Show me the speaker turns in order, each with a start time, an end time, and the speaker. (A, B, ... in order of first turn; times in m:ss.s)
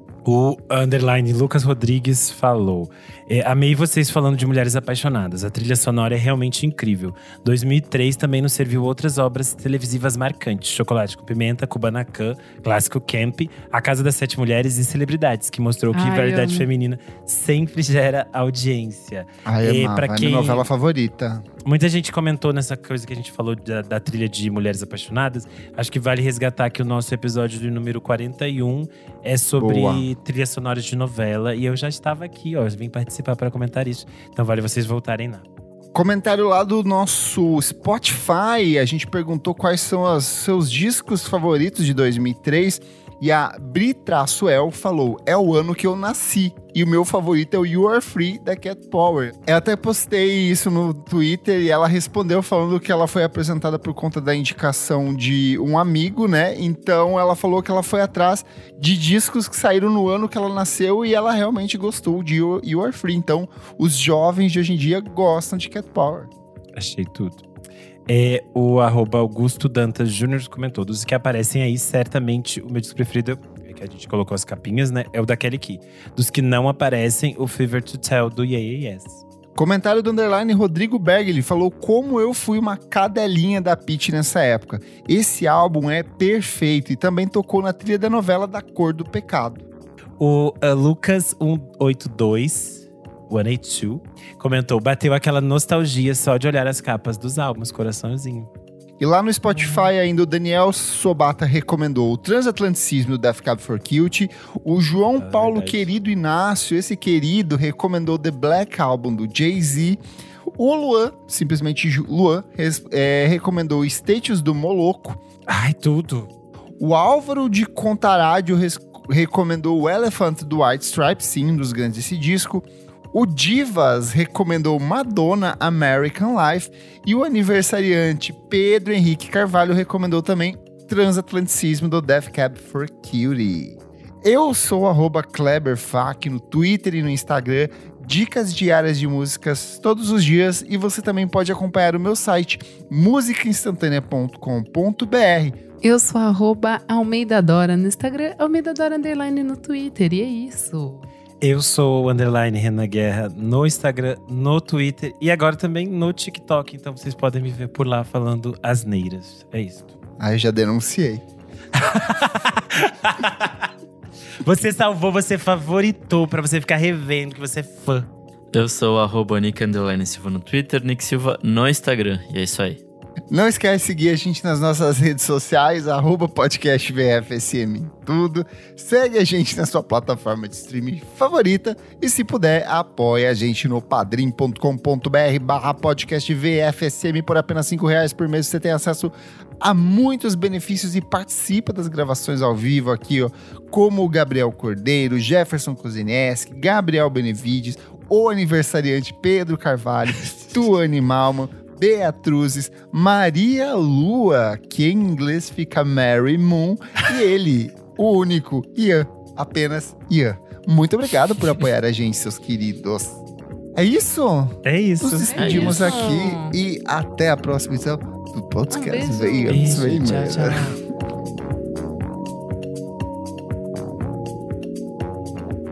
0:00.2-0:20.7 A
0:15.9-0:16.7 B
0:19.4-0:21.5 C
0:21.6-0:35.4 A
0:29.6-0:30.1 C
0:35.9-1:06.3 C
1:06.8-1:07.4 A
1:08.1-1:19.2 A
1:19.6-1:29.6 C
1:30.2-1:38.5 A
1:39.0-1:50.0 C
1:45.2-1:45.9 A
1:50.5-1:55.2 C
1:55.5-1:56.3 A
1:56.8-2:25.6 C
2:25.8-2:31.1 B
2:31.4-2:39.9 A
2:40.2-2:41.2 C
2:41.8-2:43.7 A
2:44.4-2:48.1 A
2:48.5-2:52.8 D
2:53.3-3:33.2 C
3:33.8-3:40.7 C
3:34.6-3:35.6 A
3:35.3-3:36.6 B
3:35.4-3:36.1 D
3:38.7-3:39.9 B
3:39.5-3:40.8 A